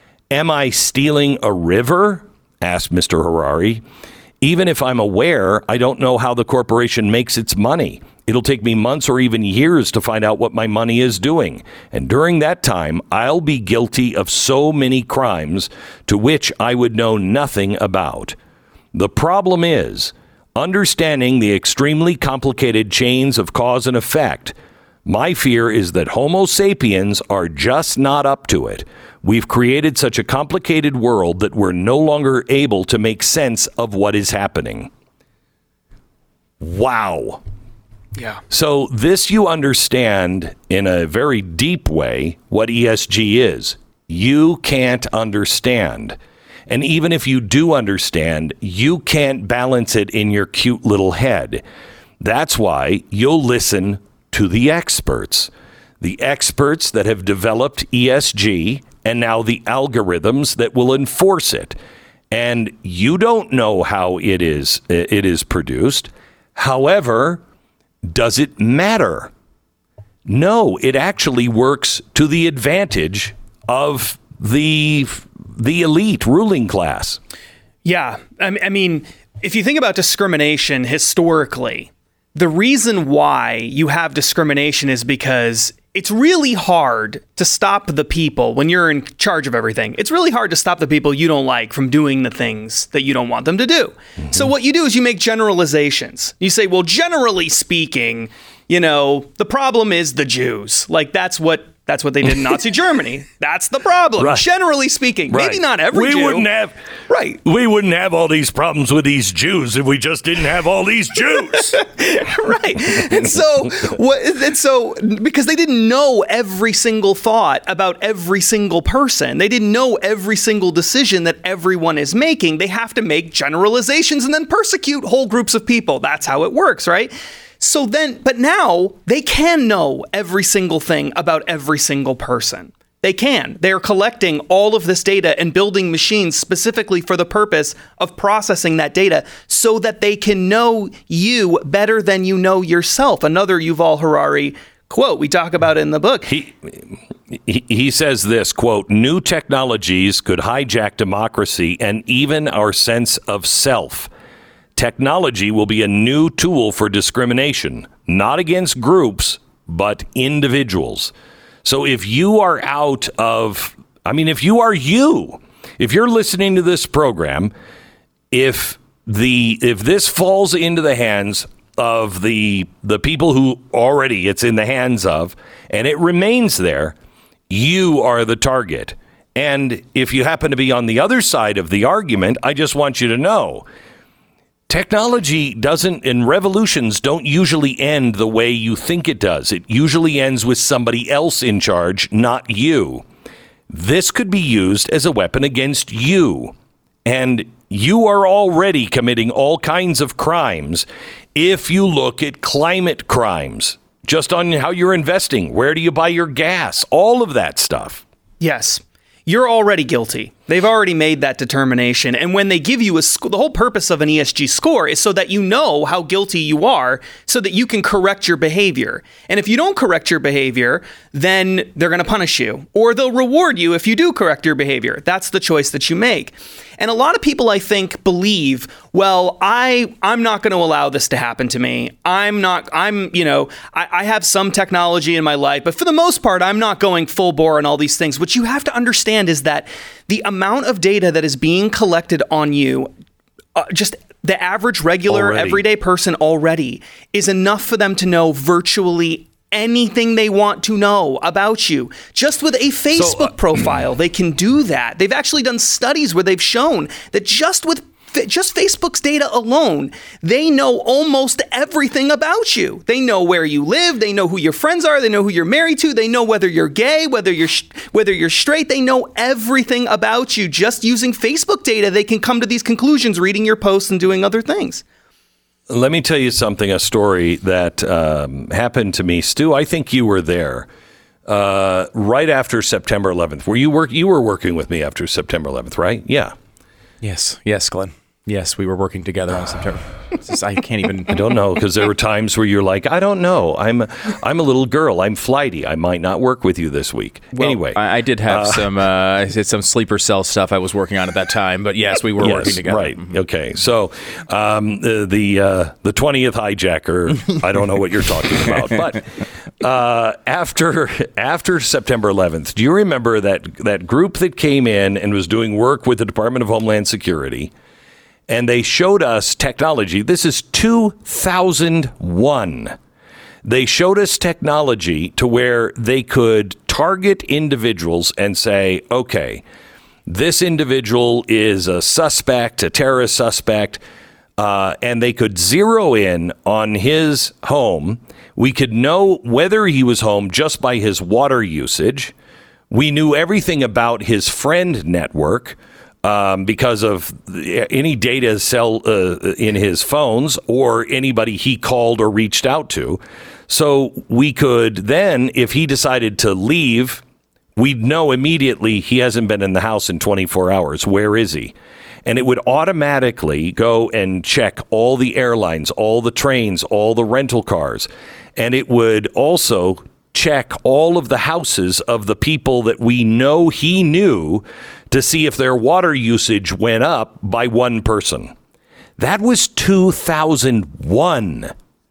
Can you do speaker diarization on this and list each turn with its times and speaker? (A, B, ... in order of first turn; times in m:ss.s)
0:00.3-0:03.8 A
0:04.4-0:18.4 A
0:18.9-0:34.9 A
0:36.6-0:37.4 A
0:38.2-0:38.4 B
0:38.5-0:51.6 A
0:52.2-1:01.8 A
1:02.3-1:07.4 A
1:08.0-1:09.3 A
1:10.2-1:17.2 A
1:17.8-1:46.4 B
1:44.2-1:44.4 A
1:45.3-1:46.8 A
1:47.1-1:47.4 B
1:47.4-1:51.8 A
1:51.6-2:26.3 B
2:26.3-2:34.1 A
2:34.8-2:41.1 A
2:41.6-2:47.5 A
2:48.3-2:57.0 A
2:57.5-3:03.6 A
3:04.7-3:13.0 A
3:13.7-3:16.5 A
3:17.0-3:28.0 A
3:28.4-4:02.9 B
4:03.5-4:34.8 B
4:05.1-4:05.6 A
4:13.0-4:13.3 A
4:35.7-4:40.7 A
4:41.2-4:46.3 A
4:47.0-4:51.2 C
4:51.1-4:58.7 A
4:57.3-5:03.1 C
5:02.2-5:17.5 A
5:18.3-5:22.8 A
5:23.4-5:29.4 A
5:30.1-5:33.8 A
5:34.4-5:42.1 A
5:42.7-5:57.0 A
5:57.6-6:18.3 A
6:19.0-6:21.5 A